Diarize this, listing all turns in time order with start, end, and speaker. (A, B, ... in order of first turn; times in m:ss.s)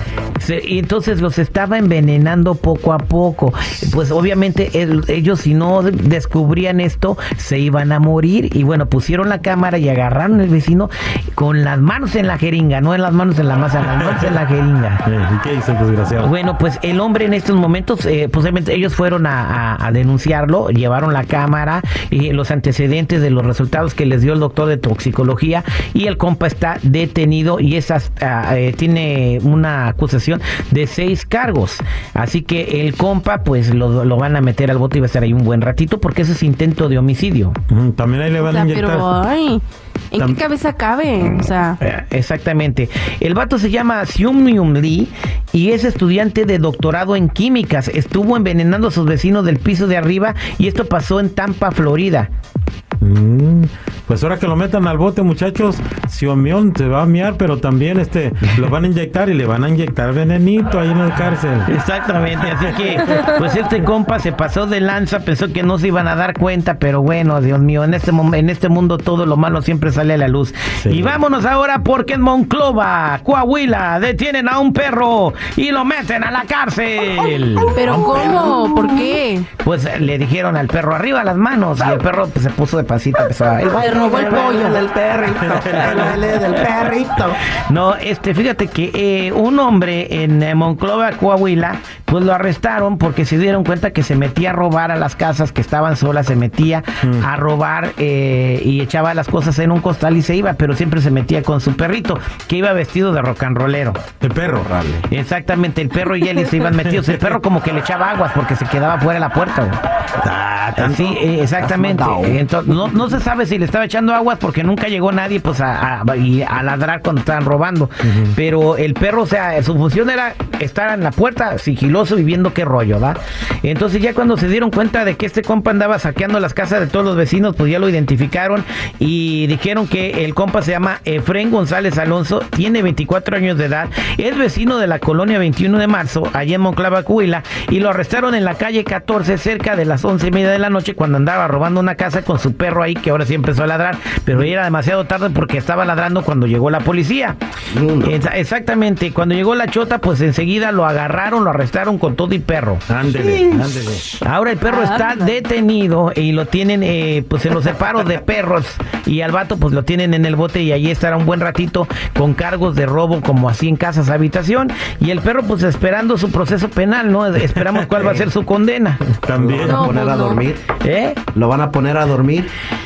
0:00.4-0:15.0 A
0:13.9-0:14.3 B
0:15.1-0:16.3 B
0:16.2-0:37.6 A
0:37.7-0:39.1 B
0:38.4-0:41.8 C
0:41.8-0:52.3 A
0:53.0-1:01.7 B
1:01.7-1:17.8 A
1:02.6-1:02.9 B
1:10.8-1:11.2 B
1:17.7-1:19.5 C
1:18.0-1:18.9 D
1:19.6-1:24.6 A
1:23.8-1:24.8 C
1:23.8-1:27.4 D
1:25.4-1:26.2 B
1:27.5-1:44.0 A
1:44.2-1:44.7 B
1:44.6-1:45.0 D
1:45.1-1:49.8 A
1:50.2-1:51.2 B
1:50.8-2:27.4 A
1:51.6-1:52.4 D
1:58.0-1:58.4 B
2:27.7-2:28.1 D
2:28.0-2:32.8 A
2:32.9-2:34.1 B
2:33.2-2:33.6 D
2:34.2-2:49.0 A
2:34.6-2:35.4 C
2:47.5-2:48.2 B
2:49.1-2:49.9 B
2:49.4-2:50.6 D
2:49.6-2:50.4 C
2:50.8-2:51.2 A
2:51.3-2:52.5 D